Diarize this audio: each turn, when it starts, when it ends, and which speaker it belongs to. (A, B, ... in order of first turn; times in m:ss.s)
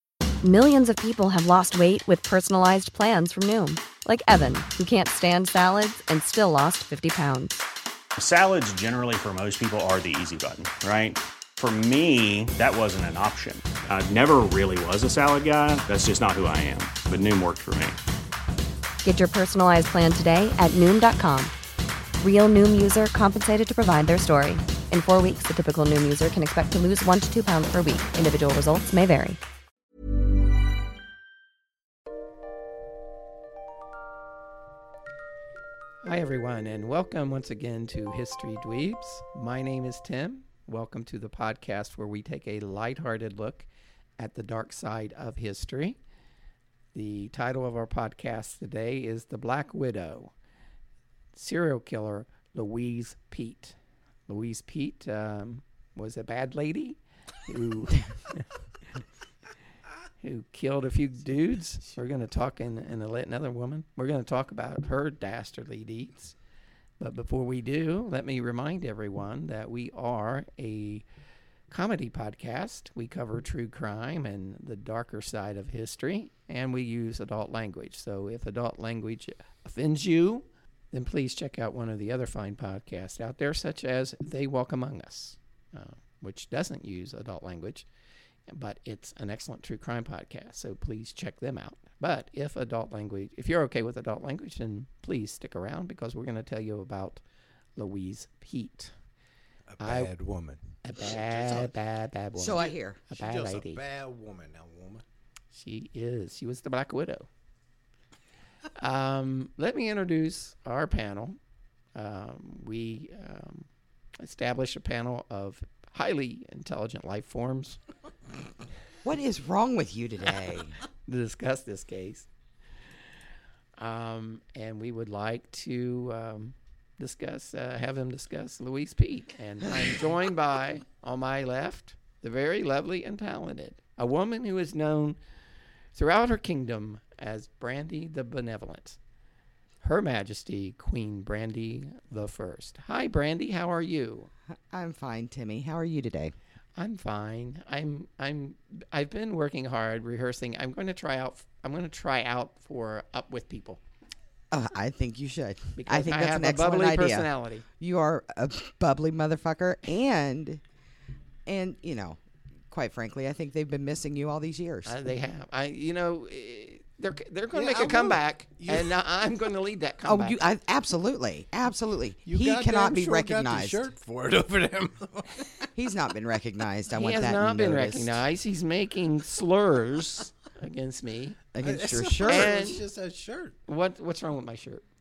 0:00.4-0:07.6 A
0:08.2-0:18.0 B
0:19.0-0:21.5 A
0:22.2-0:29.4 A
0:36.0-0:43.7 C
0:44.2-0:46.0 C
0:46.9-0:50.3 C
0:51.3-0:53.7 C
0:54.3-0:58.5 C
1:00.2-1:06.3 C
1:07.0-1:11.0 C
1:11.7-1:27.8 C
1:28.5-1:37.2 C
1:37.8-1:38.9 C
1:39.7-1:41.7 D
1:39.8-1:40.1 C
1:40.8-1:43.8 C
1:42.3-1:43.0 E
1:42.5-1:45.0 D
1:45.5-1:47.3 C
1:48.8-1:51.4 C
1:51.9-1:53.7 C
1:54.2-1:57.8 C
1:59.0-2:00.7 E
2:01.1-2:02.2 C
2:03.8-2:15.2 C
2:15.9-2:19.0 C
2:19.8-2:24.3 C
2:24.7-2:26.3 E
2:26.8-2:33.8 C
2:34.5-2:40.6 E
2:35.8-2:37.6 C
2:41.4-2:42.2 E
2:42.7-2:45.0 E
2:44.8-2:50.4 C
2:47.5-2:48.9 D
2:50.0-2:53.9 E
2:52.2-2:55.7 D
2:55.7-2:58.2 E
2:56.9-3:01.4 C
3:01.5-3:02.5 E
3:01.6-3:03.5 D
3:02.3-3:02.8 C
3:03.7-3:04.8 C